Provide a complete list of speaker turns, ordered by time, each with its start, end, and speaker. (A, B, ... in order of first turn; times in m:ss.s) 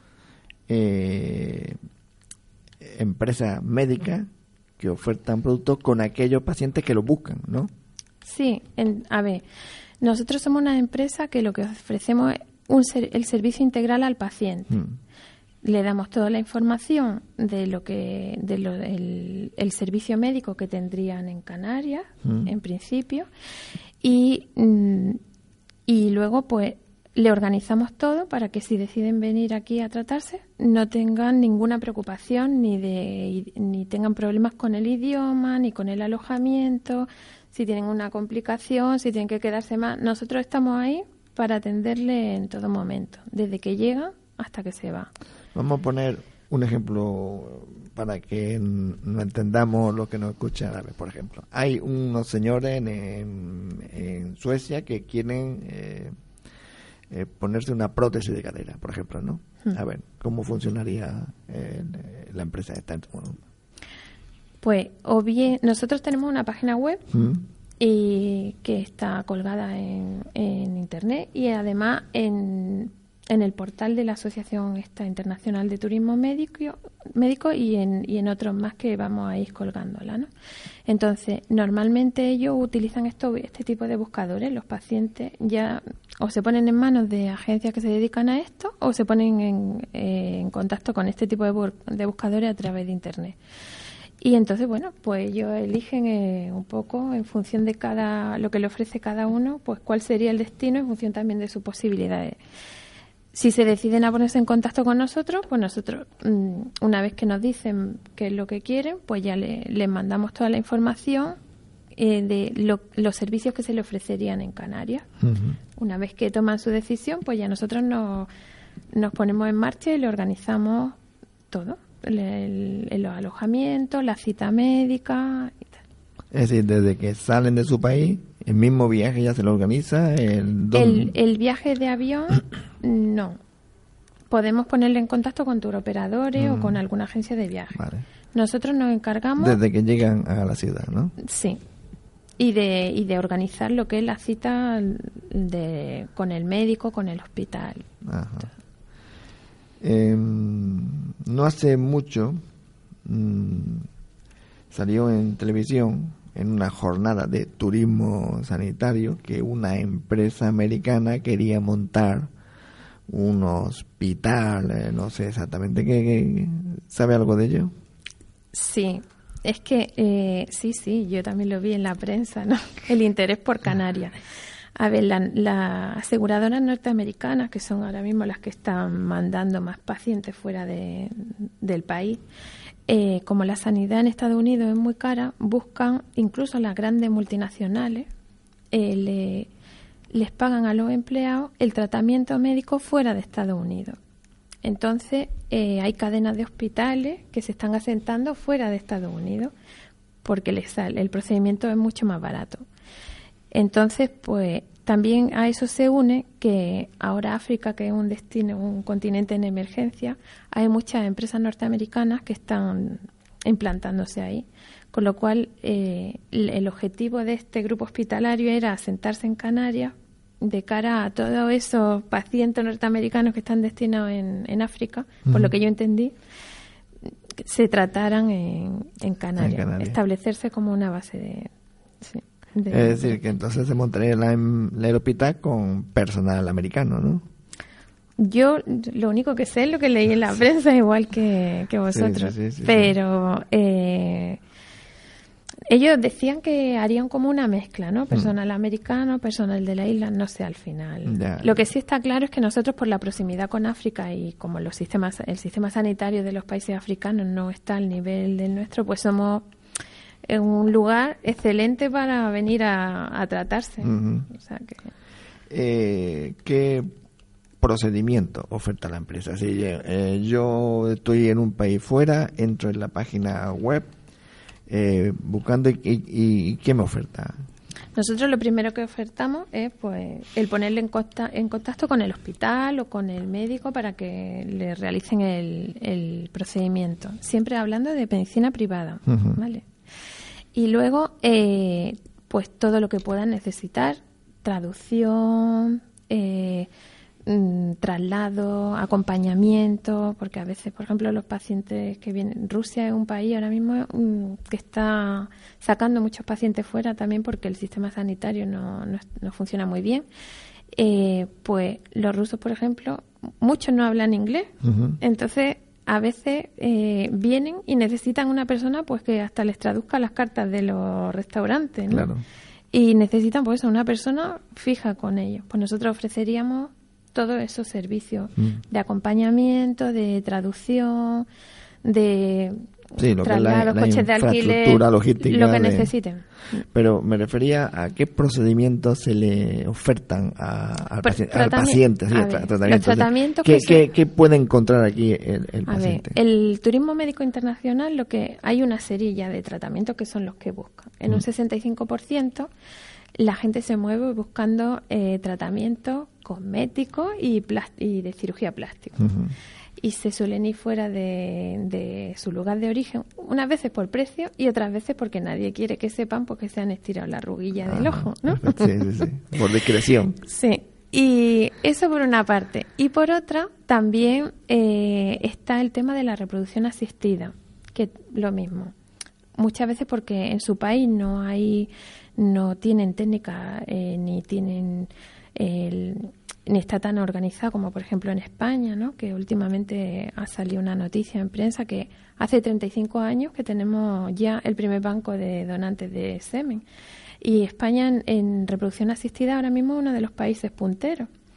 0:00.7-0:01.8 A
0:02.8-0:07.7 A
0:08.2-0:09.4 B
0:10.0-0:14.8 B
0:14.7-0:15.0 A
0:15.6-0:23.3 B
0:24.0-0:25.2 B
0:25.9-0:45.1 B
0:45.5-0:56.1 A
0:57.1-1:03.4 A
1:04.6-1:07.1 B
1:07.1-1:07.4 A
1:07.8-1:20.3 B
1:20.9-1:33.4 B
1:34.2-1:42.4 B
1:43.3-1:51.4 B
1:51.9-1:55.1 B
1:55.2-1:55.6 A
1:55.8-1:58.3 B
1:58.9-2:01.0 B
2:01.5-2:05.7 B
2:06.3-2:11.1 A
2:10.7-2:13.4 B
2:14.3-2:17.8 B
2:16.4-2:16.8 A
2:17.7-2:18.0 A
2:18.3-2:19.6 B
2:19.4-2:21.1 A
2:21.2-2:21.6 B
2:22.4-2:27.8 B
2:28.0-2:28.5 A
2:29.8-2:32.4 A
2:33.0-2:33.9 A
2:34.7-2:42.3 A
2:43.1-2:47.7 A
2:48.5-2:54.2 B
2:54.8-3:02.2 B
3:02.9-3:08.1 B
3:08.7-3:09.5 B
3:10.1-3:14.0 B
3:14.6-3:19.5 B
3:20.2-3:22.6 B
3:23.5-3:46.1 B
3:45.2-3:45.5 A
3:47.4-3:51.5 B
3:49.4-3:50.0 A
3:52.0-3:53.2 B
3:52.7-3:57.3 A
3:58.2-4:04.4 B
4:01.9-4:03.0 A
4:05.7-4:19.4 B
4:11.0-4:11.6 A
4:20.2-4:24.9 B
4:23.8-4:24.3 A
4:25.5-4:26.9 A
4:27.6-4:33.9 A
4:34.7-4:37.3 A
4:37.9-4:49.6 B
4:49.1-4:49.4 A
4:50.5-4:56.7 B
4:57.2-5:10.0 B
5:10.7-5:22.1 B
5:14.6-5:15.0 A
5:21.9-5:22.2 A
5:22.7-5:31.3 B
5:28.4-5:28.6 A
5:31.8-5:32.6 B
5:33.0-5:35.9 A
5:33.2-5:36.6 B
5:36.6-5:46.2 A
5:41.0-5:43.8 B
5:45.7-5:52.5 B
5:53.2-5:59.0 B
5:59.0-5:59.3 A
5:59.8-6:08.9 B
6:07.6-6:10.2 A
6:10.2-6:18.7 B
6:19.4-6:36.6 B
6:37.2-6:41.1 B